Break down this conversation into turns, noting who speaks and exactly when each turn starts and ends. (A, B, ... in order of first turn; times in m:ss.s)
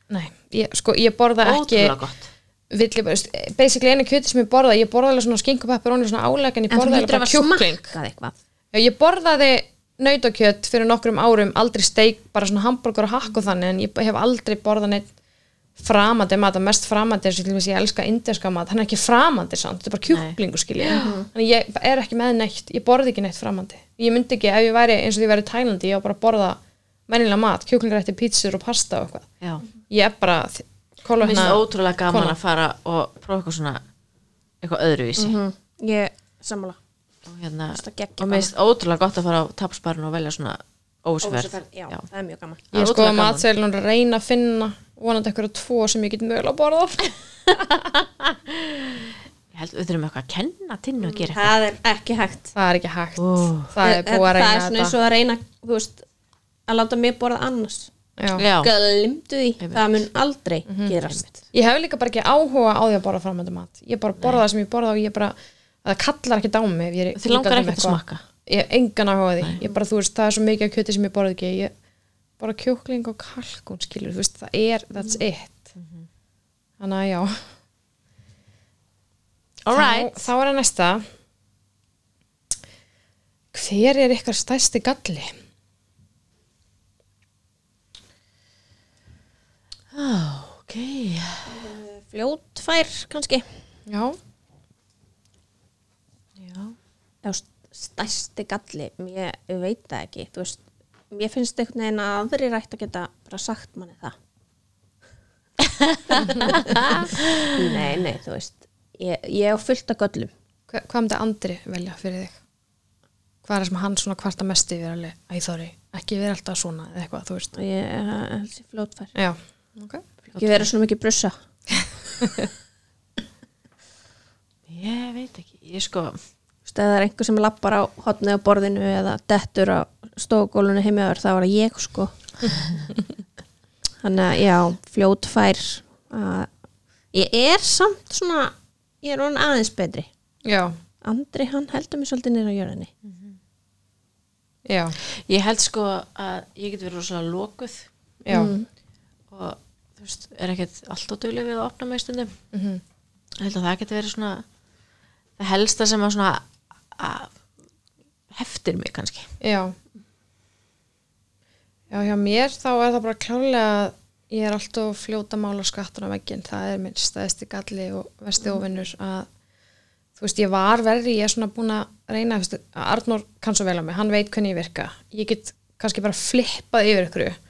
0:00.1-0:02.0 A
0:01.4-0:02.3 B
0:02.7-0:07.9 A
0:06.7-0:08.3 C
0:08.7-0:15.1 A
0:15.8-0:29.3 A
0:20.1-0:21.1 B
0:20.9-0:21.3 C
0:29.9-0:32.4 A
0:31.2-0:33.8 B
0:34.6-0:35.4 B
0:35.2-0:36.8 C
0:37.2-0:42.0 B
0:37.7-0:38.5 C
0:41.2-0:42.6 C
0:42.7-0:43.4 B
0:42.7-0:47.7 A
0:47.6-0:51.5 B
0:51.2-0:52.5 C
0:52.5-0:54.9 A
0:53.2-0:53.7 B
0:53.8-0:56.0 C
0:56.7-0:57.9 C
0:58.2-0:58.4 A
0:58.4-0:58.7 B
0:58.6-1:01.4 C
0:59.6-0:59.9 B
1:00.7-1:01.0 A
1:01.5-1:11.7 A
1:07.1-1:08.2 B
1:12.4-1:15.6 A
1:16.8-1:17.4 A
1:19.6-1:20.2 B
1:19.7-1:21.0 A
1:23.5-1:25.3 A
1:29.9-1:31.5 B
1:31.4-1:33.4 C
1:33.9-1:34.2 A
1:36.4-1:36.7 B
1:37.2-1:44.1 C
1:46.1-1:47.0 C
1:46.6-1:47.5 B
1:47.5-1:50.3 C
1:50.7-1:52.3 A
1:53.4-1:57.5 A
1:57.5-1:59.1 C
1:59.1-2:00.0 A
2:00.3-2:00.7 B
2:00.4-2:01.3 C
2:04.7-2:06.2 B
2:06.6-2:12.1 C
2:14.0-2:16.5 C
2:17.1-2:20.1 C
2:20.4-2:20.8 A
2:21.0-2:22.9 C
2:24.6-2:25.0 A
2:25.0-2:27.9 B
2:28.2-2:28.5 A
2:28.3-2:28.6 C
2:29.3-2:32.3 B
2:32.5-2:32.8 A
2:33.4-2:34.4 B
2:35.4-2:37.3 B
2:38.3-2:39.3 B
2:39.4-2:39.7 A
2:41.9-2:49.3 A
2:50.2-2:57.4 A